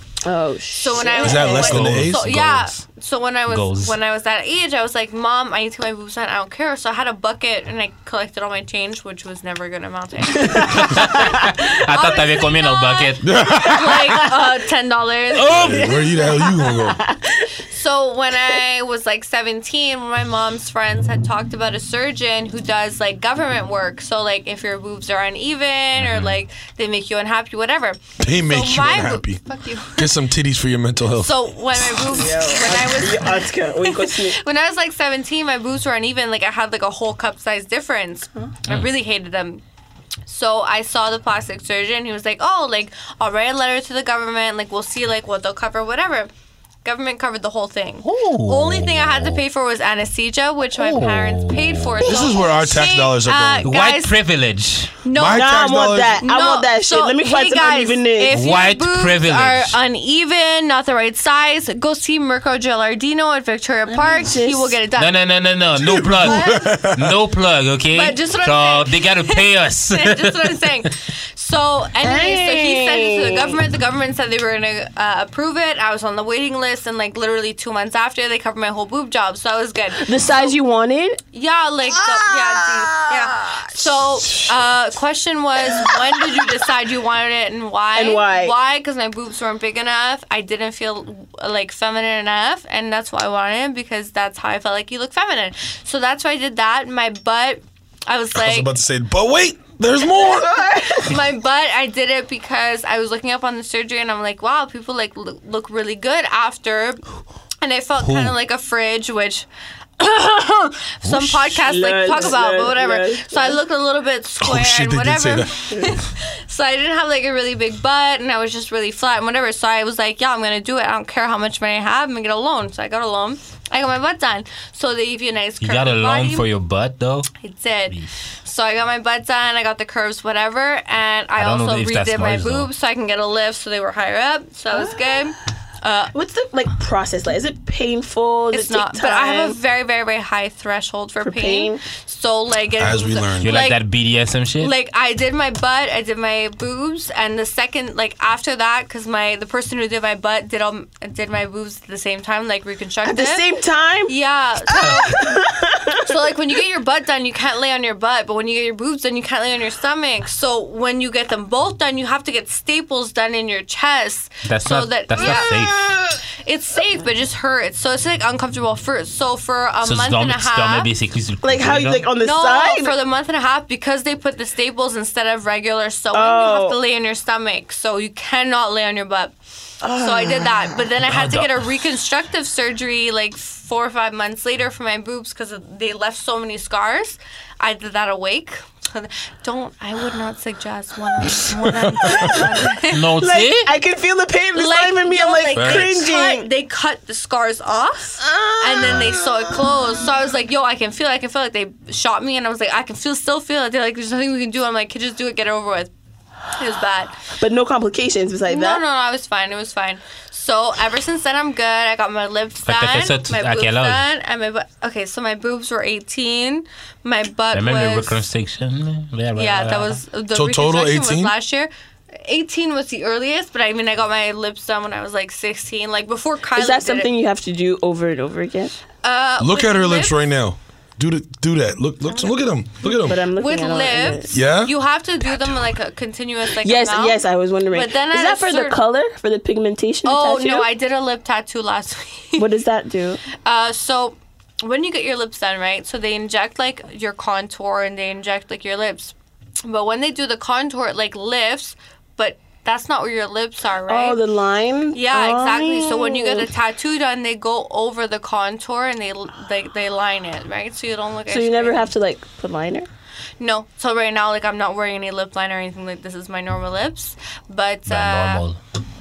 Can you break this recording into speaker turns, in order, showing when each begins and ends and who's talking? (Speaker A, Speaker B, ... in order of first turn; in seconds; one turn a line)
Speaker A: 0.2-1.8
Speaker B: 0.8-16.0
Speaker C: 1.1-2.2
Speaker D: 1.6-2.8
Speaker D: 3.5-4.0
Speaker A: 10.4-11.4
Speaker D: 10.6-14.2
Speaker C: 13.2-14.2
Speaker D: 15.3-15.9
Speaker C: 15.5-17.0
Speaker A: 15.5-17.5
Speaker B: 17.7-30.1
Speaker D: 26.0-26.4
Speaker C: 28.2-31.3
Speaker B: 31.1-39.6
Speaker A: 32.0-34.4
Speaker B: 40.3-46.3
Speaker B: 46.8-54.2
Speaker D: 48.0-49.4
Speaker D: 50.8-52.2
Speaker C: 52.0-53.8
Speaker D: 53.6-55.0
Speaker B: 55.0-65.1
Speaker C: 55.1-56.2
Speaker A: 55.3-58.3
Speaker D: 58.3-59.8
Speaker A: 63.9-64.8
Speaker D: 65.0-70.7
Speaker C: 65.8-67.2
Speaker B: 66.2-66.8
Speaker B: 67.9-80.6
Speaker A: 72.0-73.6
Speaker A: 80.0-81.2
Speaker B: 81.3-98.7
Speaker A: 81.9-83.8
Speaker A: 85.7-86.2
Speaker A: 87.9-88.5
Speaker C: 98.3-100.5
Speaker A: 100.1-101.2
Speaker B: 100.9-107.0
Speaker B: 107.6-109.5
Speaker D: 108.0-108.3
Speaker B: 110.0-126.5
Speaker C: 111.0-111.6
Speaker A: 111.7-113.6
Speaker C: 114.4-115.7
Speaker D: 125.6-127.3
Speaker B: 127.4-136.1
Speaker D: 131.4-132.7
Speaker A: 136.1-139.6
Speaker B: 138.5-143.8
Speaker A: 141.2-141.8
Speaker C: 142.8-143.5
Speaker D: 143.4-144.7
Speaker B: 144.6-153.4
Speaker A: 153.0-154.1
Speaker B: 154.1-155.4
Speaker A: 154.7-156.2
Speaker B: 155.9-165.9
Speaker D: 164.5-165.8
Speaker A: 165.2-165.5
Speaker B: 166.4-170.9
Speaker D: 169.8-172.0
Speaker A: 171.4-172.9
Speaker B: 172.2-179.3
Speaker A: 176.1-176.8
Speaker A: 179.8-180.8
Speaker B: 179.9-193.1
Speaker D: 181.1-181.7
Speaker A: 192.0-192.6
Speaker D: 192.9-193.7
Speaker A: 193.2-196.5
Speaker B: 194.6-205.9
Speaker C: 195.6-196.0
Speaker A: 198.2-199.6
Speaker B: 206.5-207.2
Speaker A: 207.4-208.8
Speaker B: 208.5-218.2
Speaker D: 212.7-214.1
Speaker D: 217.5-220.0
Speaker B: 219.4-221.7
Speaker C: 220.3-221.3
Speaker B: 222.2-227.1
Speaker A: 226.6-228.8
Speaker B: 229.0-230.2
Speaker C: 229.4-233.2
Speaker B: 232.1-232.3
Speaker A: 232.8-234.3
Speaker B: 233.3-238.8
Speaker C: 234.3-234.8
Speaker C: 235.3-235.5
Speaker A: 236.6-240.7
Speaker B: 240.0-242.5
Speaker A: 242.4-243.2
Speaker B: 243.4-254.2
Speaker A: 253.9-256.5
Speaker B: 254.9-261.9
Speaker A: 261.3-262.9
Speaker B: 263.4-268.4
Speaker D: 267.9-268.6